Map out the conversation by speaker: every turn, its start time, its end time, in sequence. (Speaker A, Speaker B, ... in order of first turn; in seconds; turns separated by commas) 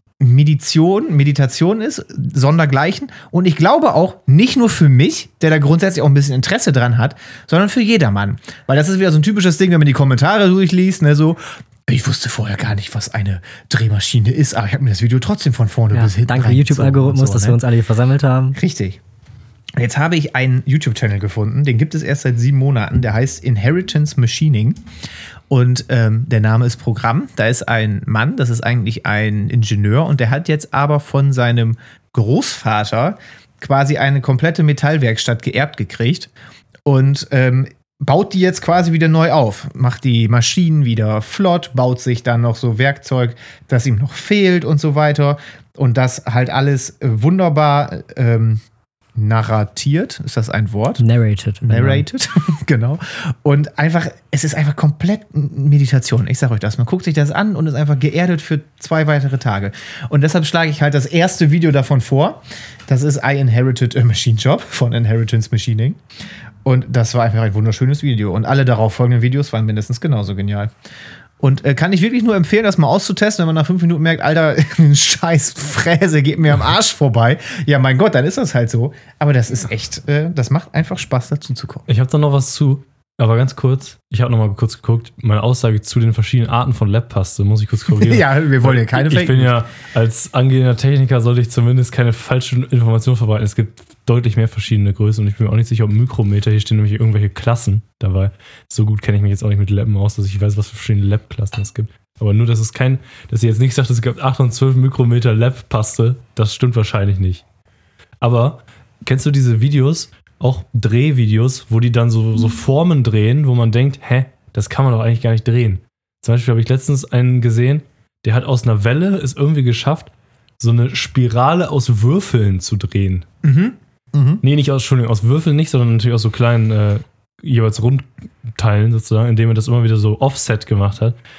Speaker A: 0.2-17.6, Speaker B: 15.9-18.6, Speaker A: 18.5-19.0, Speaker A: 19.8-24.8, Speaker A: 25.5-36.3, Speaker A: 36.9-48.6, Speaker A: 49.1-51.0, Speaker B: 51.0-52.0, Speaker A: 51.6-66.0, Speaker A: 66.6-70.7, Speaker A: 71.4-81.9, Speaker C: 81.9-107.4, Speaker A: 87.9-89.6, Speaker C: 108.2-123.2, Speaker A: 123.4-124.4, Speaker C: 124.4-131.2